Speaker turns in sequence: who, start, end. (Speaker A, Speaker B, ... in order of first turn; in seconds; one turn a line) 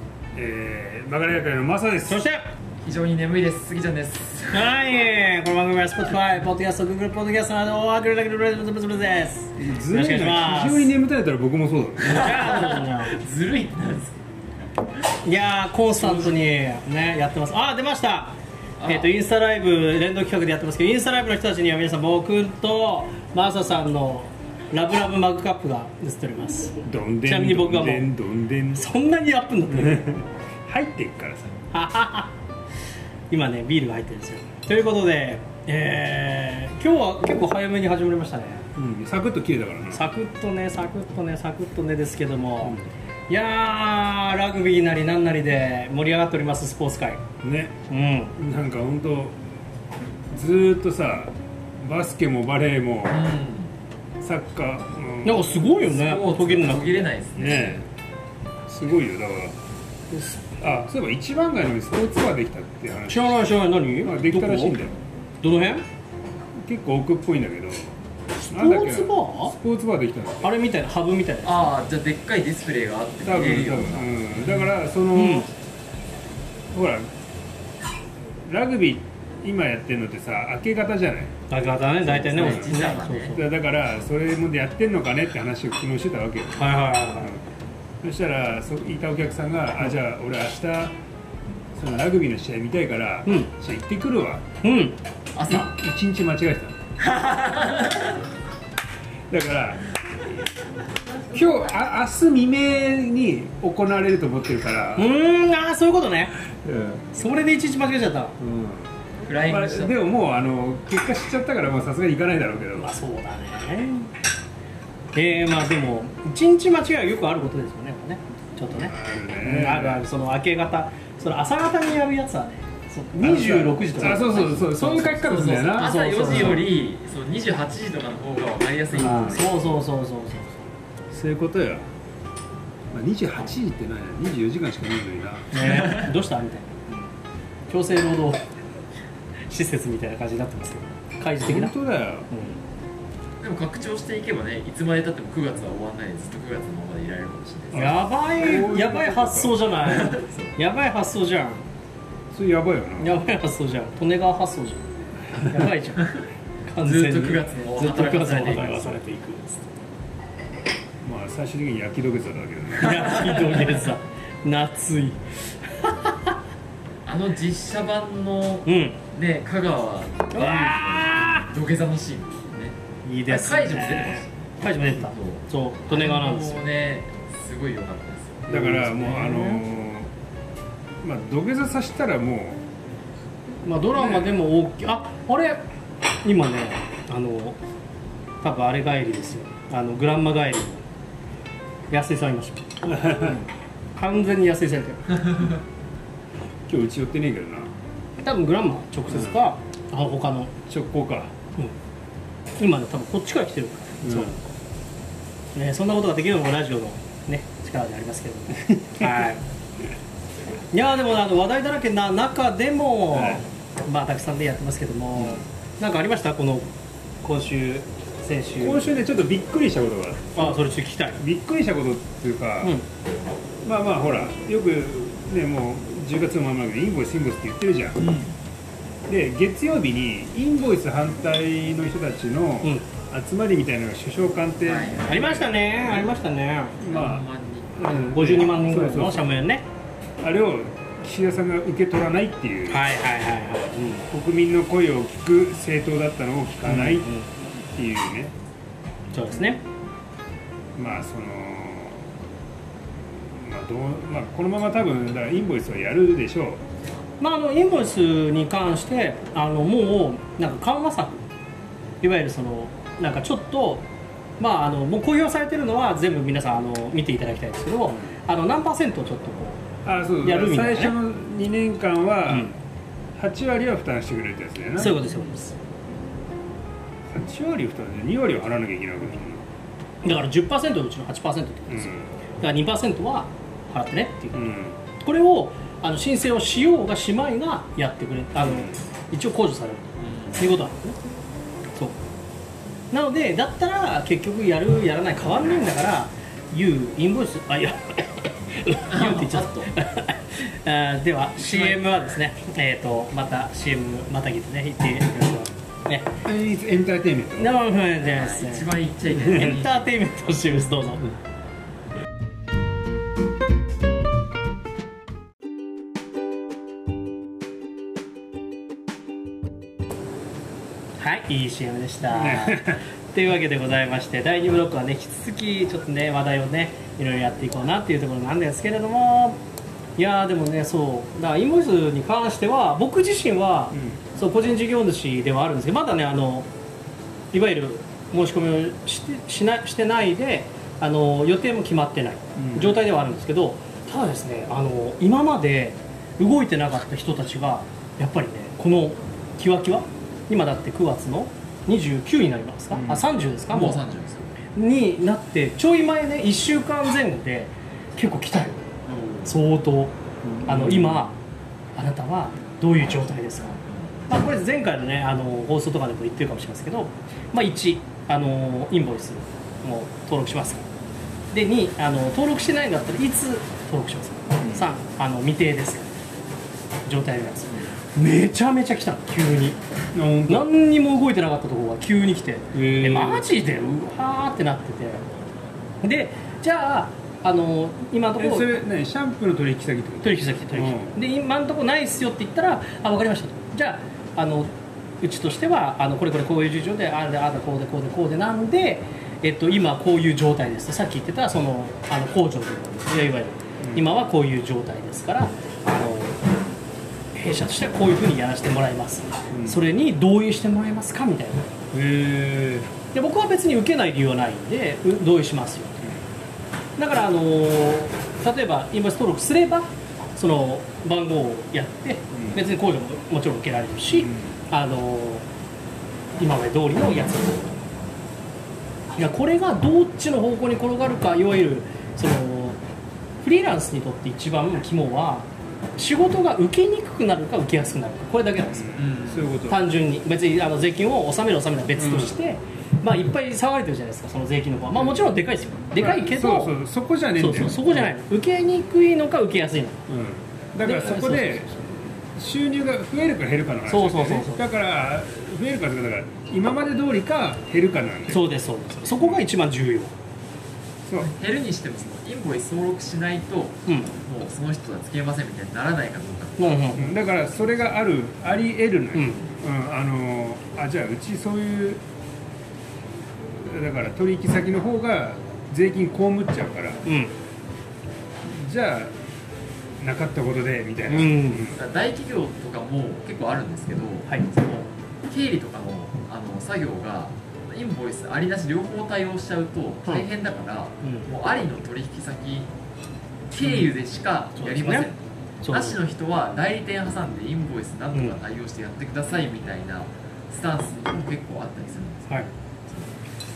Speaker A: 0.3-2.2
Speaker B: 2.1-2.5
Speaker C: 2.8-4.7
Speaker B: 4.5-10.9
Speaker A: 9.6-12.4
Speaker C: 12.1-14.2
Speaker B: 12.1-13.2
Speaker B: 15.2-28.1
Speaker C: 18.8-19.1
Speaker A: 26.9-28.9
Speaker B: 28.8-30.1
Speaker A: 29.7-31.5
Speaker B: 31.7-32.3
Speaker B: 33.3-38.6
Speaker A: 38.8-40.1
Speaker B: 39.9-42.8
Speaker B: 43.3-47.2
Speaker A: 47.4-47.8
Speaker B: 47.9-48.4
Speaker A: 48.4-49.4
Speaker A: 50.3-53.3
Speaker C: 53.1-53.7
Speaker A: 54.2-55.9
Speaker B: 55.2-57.1
Speaker C: 55.9-57.8
Speaker A: 57.4-57.9
Speaker A: 58.7-59.6
Speaker B: 60.1-60.4
Speaker A: 60.6-63.5
Speaker B: 63.1-64.8
Speaker A: 64.0-65.0
Speaker B: 65.4-65.8
Speaker A: 66.6-68.0
Speaker B: 68.4-69.5
Speaker A: 68.5-70.6
Speaker B: 70.4-71.7
Speaker C: 71.4-74.7
Speaker A: 73.2-75.5
Speaker B: 75.2-75.5
Speaker A: 76.7-77.1
Speaker A: 78.5-81.3
Speaker B: 81.5-83.5
Speaker A: 82.0-87.4
Speaker C: 82.3-83.4
Speaker B: 86.5-87.4
Speaker A: 88.0-90.9
Speaker A: 91.8-94.5
Speaker B: 93.3-93.5
Speaker B: 94.6-95.0
Speaker C: 95.4-95.7
Speaker A: 95.5-96.8
Speaker C: 97.0-98.2
Speaker A: 99.3-100.5
Speaker A: 101.3-105.1
Speaker B: 105.0-106.4
Speaker A: 106.6-107.0
Speaker B: 107.1-108.4
Speaker A: 108.4-108.9
Speaker C: 109.3-110.0
Speaker A: 109.5-112.9
Speaker B: 112.8-114.1
Speaker B: 115.2-126.7
Speaker A: 118.7-120.0
Speaker A: 123.1-126.7
Speaker C: 125.5-129.5
Speaker A: 128.9-129.4
Speaker B: 129.0-130.7
Speaker A: 131.1-131.9
Speaker A: 132.9-135.5
Speaker B: 135.5-137.1
Speaker C: 135.6-136.1
Speaker B: 137.7-138.4
Speaker B: 139.5-141.7
Speaker A: 141.4-142.3
Speaker B: 142.3-142.6
Speaker C: 143.4-147.9
Speaker A: 147.7-149.7
Speaker B: 147.7-151.7
Speaker C: 149.8-150.5
Speaker A: 152.3-153.2
Speaker B: 153.0-156.1
Speaker B: 156.7-159.7
Speaker C: 156.8-159.0
Speaker A: 161.0-163.3
Speaker B: 162.8-166.3
Speaker C: 163.1-163.8
Speaker C: 167.1-172.8
Speaker B: 168.7-169.0
Speaker B: 170.3-171.5
Speaker B: 173.1-176.6
Speaker C: 173.3-178.5
Speaker B: 178.5-179.6
Speaker A: 178.5-180.1
Speaker A: 181.0-182.6
Speaker B: 183.6-185.6
Speaker B: 186.2-187.6
Speaker B: 188.4-190.8
Speaker B: 191.9-195.2
Speaker A: 192.9-193.4
Speaker A: 196.7-197.7
Speaker B: 198.2-200.5
Speaker A: 199.1-199.4
Speaker A: 200.7-201.3
Speaker B: 202.6-204.4
Speaker A: 204.0-204.4
Speaker B: 205.6-209.4
Speaker A: 208.6-209.3
Speaker B: 210.7-216.7
Speaker A: 213.1-213.4
Speaker B: 217.2-218.9
Speaker A: 218.6-220.6
Speaker B: 220.4-221.2
Speaker A: 221.2-222.7
Speaker A: 223.6-228.1
Speaker C: 228.0-228.3
Speaker A: 229.1-236.2
Speaker C: 234.7-235.1
Speaker B: 235.1-236.8
Speaker A: 236.8-239.4
Speaker C: 236.9-237.7
Speaker B: 237.8-239.7
Speaker A: 240.2-242.9
Speaker B: 242.7-244.1
Speaker A: 244.1-247.2
Speaker B: 246.6-247.3
Speaker A: 247.7-248.3
Speaker B: 249.1-249.6
Speaker A: 250.8-252.2
Speaker A: 253.0-256.6
Speaker B: 257.2-261.2
Speaker B: 262.0-263.9
Speaker B: 264.4-269.6
Speaker A: 267.9-268.2
Speaker A: 269.8-272.5
Speaker B: 270.2-271.0
Speaker B: 272.3-272.6
Speaker A: 273.1-275.1
Speaker B: 274.8-275.6
Speaker A: 277.1-279.4
Speaker B: 280.0-291.0
Speaker A: 281.7-282.1
Speaker A: 284.3-284.8
Speaker A: 288.4-288.8
Speaker C: 290.0-290.4
Speaker B: 292.9-306.1
Speaker C: 298.9-299.7
Speaker C: 301.4-302.2
Speaker A: 306.2-307.6
Speaker B: 307.4-308.7
Speaker C: 308.1-309.9
Speaker A: 309.1-309.5
Speaker B: 309.3-311.2
Speaker B: 321.0-329.4
Speaker A: 322.1-322.8
Speaker B: 330.0-336.5
Speaker A: 333.7-334.0
Speaker B: 337.3-353.8
Speaker A: 342.4-342.8
Speaker A: 352.7-353.1
Speaker C: 353.5-354.4
Speaker B: 354.6-358.7
Speaker C: 358.9-359.3
Speaker B: 359.2-361.2
Speaker A: 360.2-361.1
Speaker B: 361.8-363.6
Speaker C: 363.7-363.9
Speaker B: 364.1-370.7
Speaker B: 371.3-376.0
Speaker A: 374.4-374.7
Speaker B: 376.9-379.6
Speaker A: 379.9-380.6
Speaker B: 380.3-385.1
Speaker A: 382.5-383.3
Speaker B: 385.8-388.6
Speaker A: 388.2-391.0
Speaker B: 390.0-406.2
Speaker A: 403.6-403.9
Speaker B: 407.1-411.5
Speaker A: 409.3-409.7
Speaker A: 411.7-412.7
Speaker B: 412.9-415.9
Speaker B: 416.8-425.3
Speaker A: 422.1-422.4
Speaker A: 423.9-424.4
Speaker B: 426.2-427.6
Speaker B: 428.9-432.6
Speaker B: 433.2-438.8
Speaker A: 438.5-439.7
Speaker C: 438.8-439.3
Speaker B: 439.5-446.6
Speaker A: 441.8-442.2
Speaker A: 444.8-445.1
Speaker A: 445.8-447.9
Speaker B: 447.2-449.9
Speaker A: 449.9-458.3
Speaker B: 450.6-451.6
Speaker B: 453.7-454.4
Speaker B: 458.1-459.9
Speaker A: 460.9-461.1
Speaker C: 461.0-466.8
Speaker B: 463.7-463.9
Speaker B: 466.4-466.9
Speaker A: 466.8-471.8
Speaker B: 468.9-469.3
Speaker A: 473.3-476.8
Speaker B: 476.9-477.1
Speaker A: 478.2-478.9
Speaker A: 479.8-481.6
Speaker B: 480.9-481.5
Speaker C: 481.5-492.5
Speaker B: 484.1-484.7
Speaker B: 490.8-491.1
Speaker C: 493.3-502.9
Speaker B: 494.4-494.9
Speaker B: 495.4-495.8